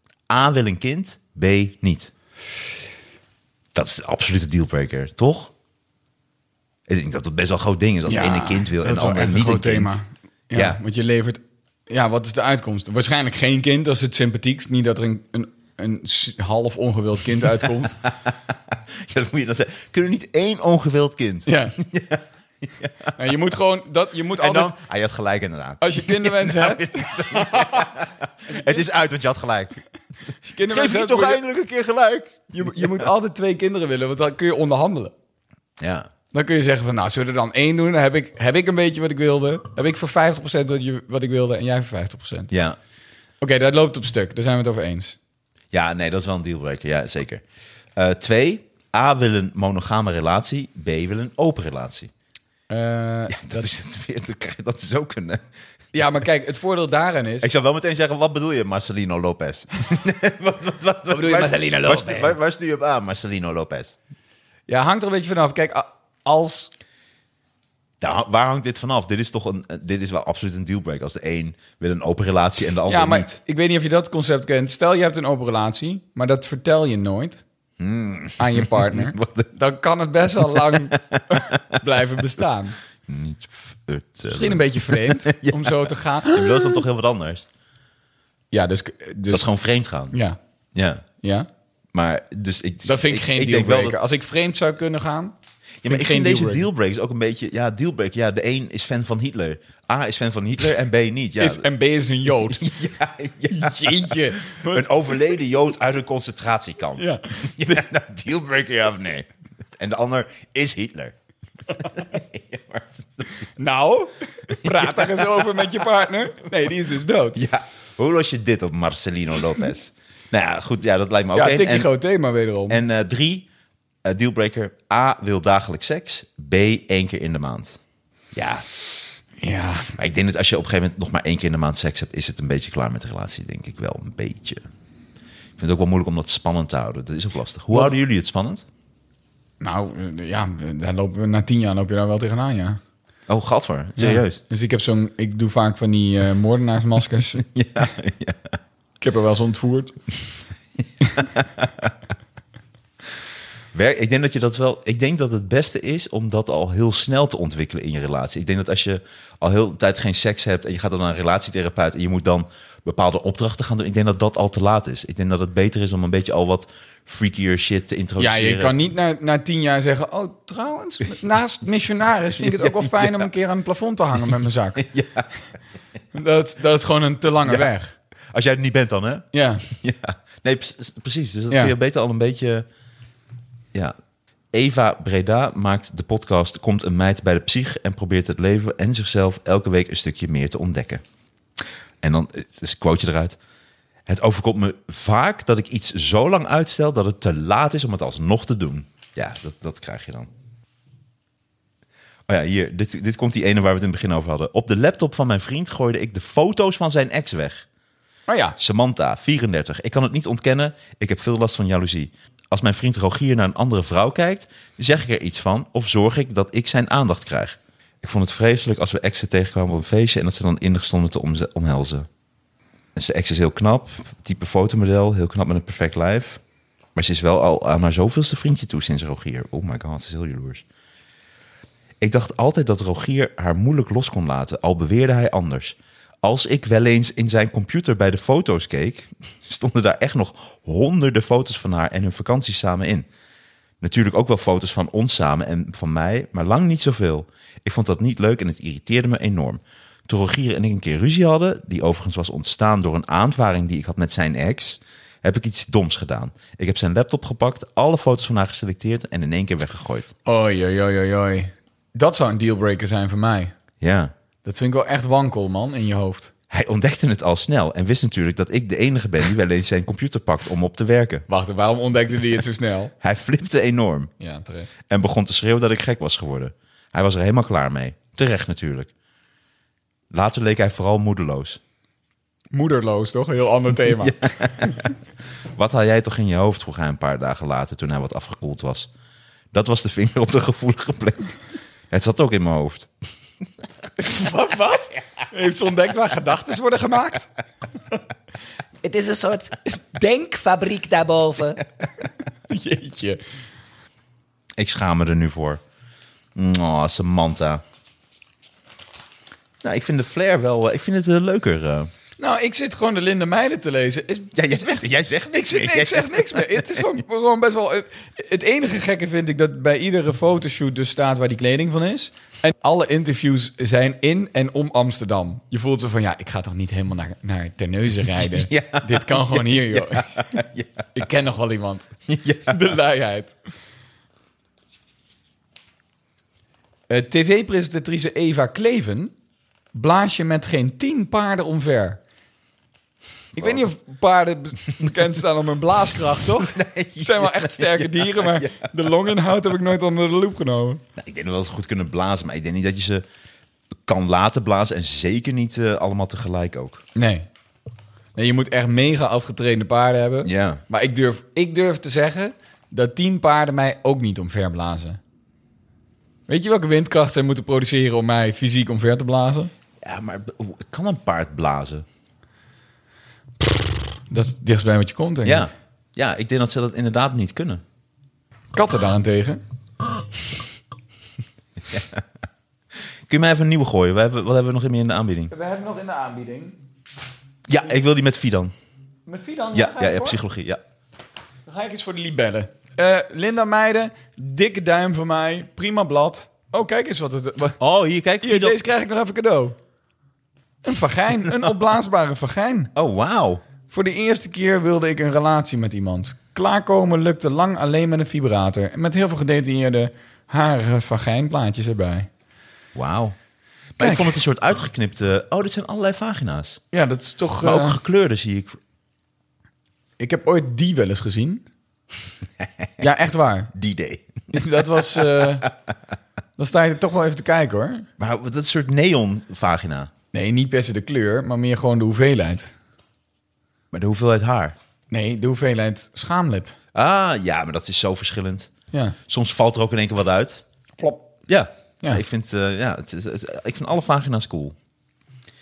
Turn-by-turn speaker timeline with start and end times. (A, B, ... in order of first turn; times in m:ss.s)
0:00.3-0:02.1 A
0:03.7-0:05.5 A
0:06.9-0:10.0 A
0:08.1-0:18.0 B
0:18.0-0:23.1 A
0:21.4-0:21.8 B
0:23.2-0:24.7 B
0:24.4-0:29.8 A
0:25.8-0:27.9 B
0:30.4-0:31.4 B
0:30.7-0:33.0 A
0:32.5-0:35.1 B
0:35.8-0:36.1 A
0:36.3-0:42.5 B
0:42.5-0:42.8 A
0:43.4-0:45.2 B
0:45.7-0:47.4 A
0:48.0-0:52.1 A
0:52.7-0:53.7 B
0:53.3-0:55.4 A
0:55.9-0:57.5 B
0:57.4-1:03.9 A
1:01.1-1:02.3 B
1:04.7-1:06.7 B
1:08.0-1:13.4 A
1:12.9-1:17.4 B
1:17.8-1:19.5 A
1:18.4-1:22.8 B
1:20.6-1:21.2 A
1:23.0-1:27.4 A
1:24.2-1:26.8 B
1:28.5-1:29.4 B
1:29.3-1:30.2 A
1:30.1-1:30.4 B
1:30.7-1:31.0 A
1:31.2-1:31.5 B
1:31.9-1:34.0 A
1:32.8-1:36.6 B
1:35.8-1:41.7 A
1:41.4-1:42.7 B
1:42.4-1:51.1 A
1:43.5-1:45.1 B
1:47.0-1:47.8 B
1:51.8-1:53.4 A
1:53.6-1:57.4 B
1:54.6-1:55.4 A
1:57.3-2:01.9 A
2:01.3-2:02.8 B
2:02.7-2:03.5 A
2:04.0-2:07.8 A
2:08.3-2:08.6 A
2:09.4-2:09.9 B
2:10.0-2:14.6 A
2:15.6-2:18.6 A
2:19.6-2:22.8 B
2:23.3-2:24.4 A
2:24.0-2:27.4 B
2:27.4-2:28.6 A
2:29.0-2:29.9 B
2:31.2-2:31.9 A
2:33.7-2:48.7 A
2:48.2-2:54.8 B
2:52.4-2:53.3 A
2:54.8-2:55.3 A
2:56.1-2:57.9 B
2:58.3-3:02.6 A
2:59.3-2:59.6 B
3:04.5-3:11.0 A
3:12.0-3:13.4 A
3:14.1-3:20.3 A
3:22.3-3:27.6 A
3:28.3-3:28.6 B
3:28.6-3:42.1 A
3:43.0-3:46.4 A
3:46.9-3:50.6 A
3:52.0-4:03.1 A
4:03.8-4:20.1 A
4:20.2-4:23.5 B
4:23.8-4:24.1 A
4:24.4-4:26.3 B
4:26.5-4:31.3 A
4:31.3-4:32.9 B
4:33.0-4:34.1 A
4:34.2-4:34.7 B
4:34.9-4:38.9 A
4:40.1-4:41.6 A
4:42.5-4:44.2 B
4:43.8-4:44.9 A
4:45.5-4:48.9 A
4:49.5-4:51.3 A
4:51.9-4:52.9 A
4:54.0-4:57.3 B
4:58.8-5:01.6 C
5:02.5-5:03.2 B
5:04.6-5:05.6 A
5:06.3-5:07.6 A
5:09.6-5:11.9 A
5:12.2-5:14.3 B
5:14.3-5:17.0 A
5:15.5-5:30.3 B
5:28.2-5:30.8 A
5:30.9-5:31.9 B
5:32.1-5:32.7 A
5:32.5-5:33.4 B
5:36.9-5:39.1 B
5:39.7-5:42.0 B
5:43.3-5:43.7 A
5:43.4-5:50.8 B
5:46.4-5:48.7 A
5:51.0-5:53.0 A
5:53.8-5:56.8 A
5:57.0-5:57.3 B
5:58.2-6:05.0 B
6:00.2-6:00.6 A
6:06.3-6:09.5 B
6:09.8-6:11.8 A
6:13.4-6:15.5 B
6:15.2-6:17.6 A
6:18.5-6:19.4 B
6:21.7-6:22.0 A
6:23.1-6:25.3 A
6:25.3-6:26.6 B
6:27.5-6:28.5 A
6:29.0-6:30.2 B
6:29.5-6:30.6 A
6:31.4-6:37.6 B
6:37.6-6:38.6 A
6:38.2-6:39.6 B
6:40.6-6:42.7 B
6:42.7-6:43.4 A
6:43.7-6:52.1 B
6:52.7-6:53.2 A
6:53.8-6:56.6 A
6:53.8-6:54.2 B
6:56.7-6:57.8 B
6:57.4-6:58.6 A
7:00.0-7:01.4 B
7:02.4-7:02.8 A
7:02.8-7:03.5 B
7:03.5-7:05.5 A
7:04.3-7:05.4 B
7:06.4-7:07.9 B
7:08.0-7:09.9 A
7:10.1-7:12.5 B
7:13.7-7:14.6 A
7:14.9-7:16.5 B
7:16.7-7:18.5 A
7:19.0-7:20.4 A
7:20.8-7:21.0 B
7:21.3-7:24.6 A